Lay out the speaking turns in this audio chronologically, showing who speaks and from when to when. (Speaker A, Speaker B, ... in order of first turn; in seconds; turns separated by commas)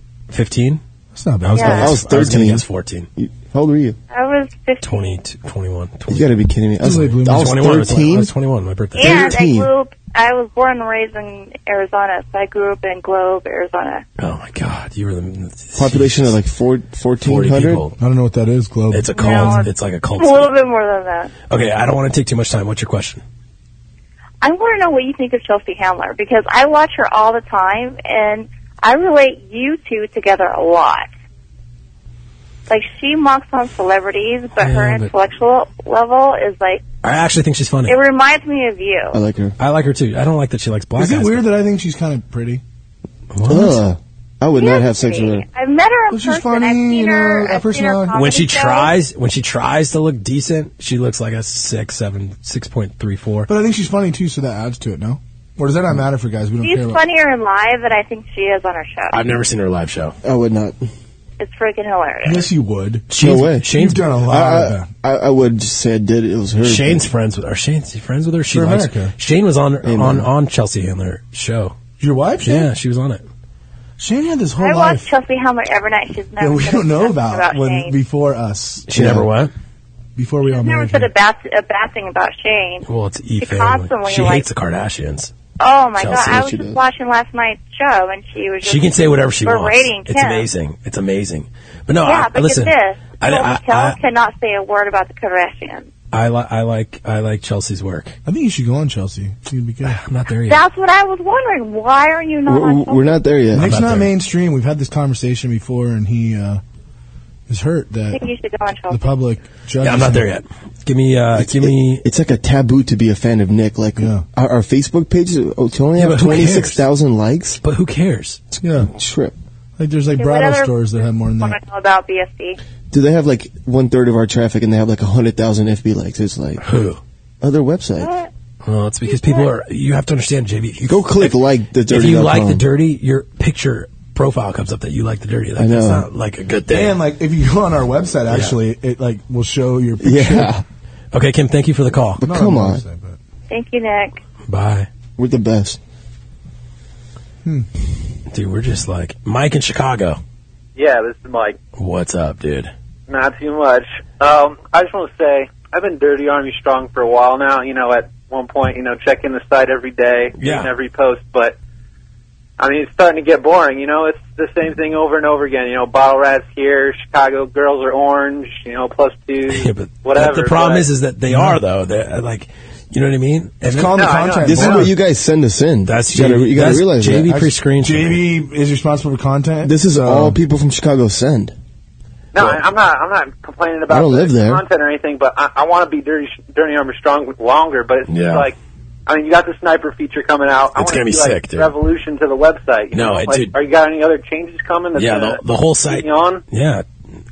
Speaker A: 0.3-0.8, Speaker B: 1.1-2.0, Speaker A: 1.4-3.1, Speaker C: 1.6-1.9, Speaker D: 1.6-2.6, Speaker D: 3.2-4.0, Speaker C: 4.1-5.2, Speaker A: 4.8-6.3, Speaker D: 6.1-8.3, Speaker B: 6.8-7.7, Speaker A: 7.3-9.4, Speaker C: 8.9-14.0, Speaker D: 9.0-9.7, Speaker A: 14.2-16.4, Speaker D: 15.8-17.8, Speaker A: 17.2-17.9, Speaker B: 18.0-19.6, Speaker A: 18.9-20.5, Speaker C: 19.1-21.3, Speaker A: 21.5-23.2, Speaker C: 24.4-31.1, Speaker C: 32.7-36.8, Speaker A: 34.6-35.1, Speaker A: 37.0-38.0, Speaker C: 37.9-39.2, Speaker D: 39.1-39.5, Speaker A: 39.6-41.5, Speaker B: 41.0-42.6, Speaker A: 43.3-43.8, Speaker D: 43.5-45.4, Speaker C: 44.5-48.9, Speaker B: 46.1-48.2, Speaker A: 48.1-53.5, Speaker B: 53.5-57.0, Speaker C: 56.6-59.2, Speaker A: 59.1-60.1, Speaker D: 60.2-60.8, Speaker C: 61.4-62.5, Speaker B: 62.2-63.1, Speaker A: 63.1-64.1, Speaker D: 63.2-63.7, Speaker B: 63.7-64.9, Speaker D: 64.3-67.1, Speaker A: 66.6-71.8, Speaker B: 68.5-69.1, Speaker D: 69.8-70.3, Speaker B: 72.0-72.7, Speaker A: 72.4-73.2, Speaker B: 74.0-75.1, Speaker C: 74.6-77.9, Speaker B: 76.4-79.2, Speaker A: 78.9-79.5, Speaker D: 79.0-79.2, Speaker B: 80.2-81.1, Speaker C: 80.5-82.9, Speaker A: 82.8-85.3, Speaker C: 83.4-84.4, Speaker C: 85.6-90.5, Speaker A: 86.0-86.4, Speaker D: 86.1-86.8, Speaker A: 88.6-94.0, Speaker C: 92.0-95.9, Speaker A: 96.1-98.1, Speaker B: 98.3-100.0, Speaker A: 99.8-100.6, Speaker C: 100.5-103.2, Speaker D: 102.5-103.7, Speaker B: 103.5-106.6, Speaker A: 103.6-104.1, Speaker B: 107.5-108.3, Speaker C: 108.1-109.1, Speaker B: 108.9-110.3, Speaker A: 109.8-112.0, Speaker D: 111.4-117.6, Speaker B: 114.0-114.2, Speaker A: 116.0-116.8, Speaker A: 117.6-118.4, Speaker B: 118.6-118.9, Speaker D: 118.8-119.3, Speaker B: 119.8-121.6, Speaker C: 120.1-122.6, Speaker D: 122.9-126.6, Speaker A: 126.6-127.0, Speaker D: 127.4-128.1, Speaker C: 128.0-128.3, Speaker A: 128.6-137.0, Speaker C: 129.1-129.5, Speaker D: 130.9-132.6, Speaker D: 135.6-136.1, Speaker B: 136.7-140.5, Speaker A: 138.3-138.6, Speaker D: 140.0-140.6, Speaker A: 141.1-142.2, Speaker D: 142.2-142.8, Speaker B: 142.2-143.2, Speaker C: 143.5-144.2, Speaker A: 144.5-144.9, Speaker D: 145.2-145.8, Speaker A: 148.3-150.2, Speaker E: 150.8-151.6, Speaker A: 151.8-152.7, Speaker E: 153.1-161.6, Speaker A: 160.4-160.7, Speaker E: 162.6-170.9, Speaker A: 169.5-174.8, Speaker B: 171.3-171.6, Speaker B: 173.6-174.9, Speaker E: 173.9-174.6, Speaker D: 174.4-177.3, Speaker A: 175.8-178.2, Speaker B: 177.2-180.4, Speaker D: 179.6-181.6, Speaker E: 182.3-188.6, Speaker D: 183.9-184.6, Speaker A: 188.1-188.5, Speaker E: 189.1-196.4, Speaker A: 190.7-191.7, Speaker A: 192.9-193.6, Speaker A: 194.9-196.8